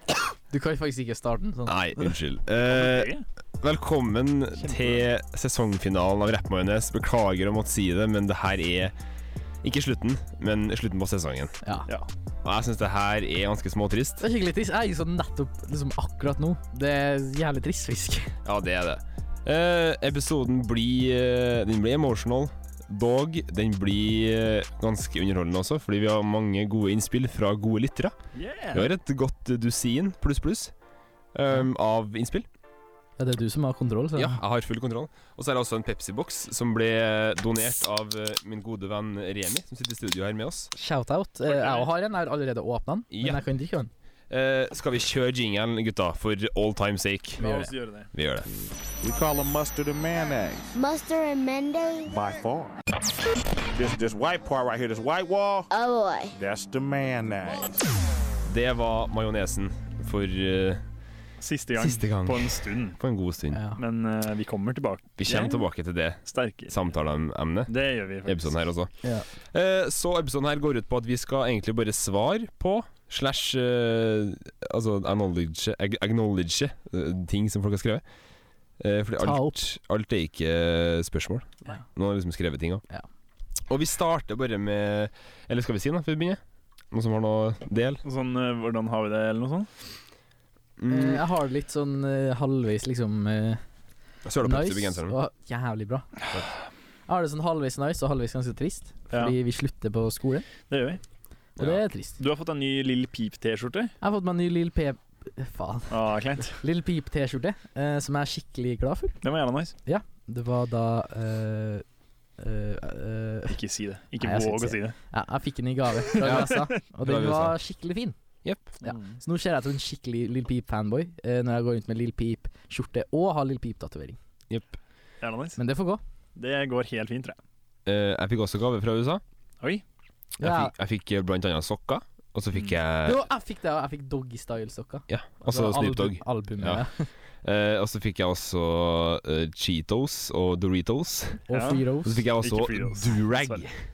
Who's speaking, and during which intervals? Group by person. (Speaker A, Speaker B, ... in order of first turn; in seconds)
Speaker A: 0.5-2.1, 11.6-11.9, 14.2-18.3, 33.2-34.4, 40.8-43.9, 47.4-47.7, 63.5-63.8, 79.2-79.6, 90.9-93.6, 94.4-96.1, 97.1-100.5, 101.6-102.2, 104.0-109.2, 109.8-111.8, 112.4-113.6, 114.2-118.1, 118.8-124.2, 125.6-126.0, 130.4-130.7, 133.0-137.1, 141.5-142.2
Speaker B: 1.6-8.9, 9.6-11.6, 12.4-14.2, 18.4-28.1, 28.7-30.7, 31.3-32.5, 34.1-40.7, 43.1-43.4, 44.3-47.4, 48.1-48.5, 58.4-60.8, 61.7-63.6, 65.2-68.9, 69.4-78.0, 78.8-82.8, 83.7-86.4, 86.9-88.0, 90.8-91.2, 94.2-95.2, 116.2-117.5, 118.4-118.7, 124.5-124.8, 127.8-129.2, 130.4-133.2, 135.1-136.8, 137.4-141.5, 142.0-143.8
Speaker C: 2.7-3.2, 4.6-5.0, 28.3-28.9, 41.4-41.9, 47.4-48.1, 61.4-63.0, 63.8-65.6, 66.2-66.8, 67.7-68.6, 88.0-89.7, 100.7-101.0, 102.2-103.9, 105.9-106.6, 109.2-109.7, 113.5-115.0, 116.1-116.8, 118.8-119.2, 125.2-125.6, 126.3-127.4, 141.5-141.8, 142.4-143.7
Speaker D: 49.0-50.7, 52.1-52.8, 53.7-55.7, 56.4-57.7
Speaker E: 50.7-52.1, 55.7-56.3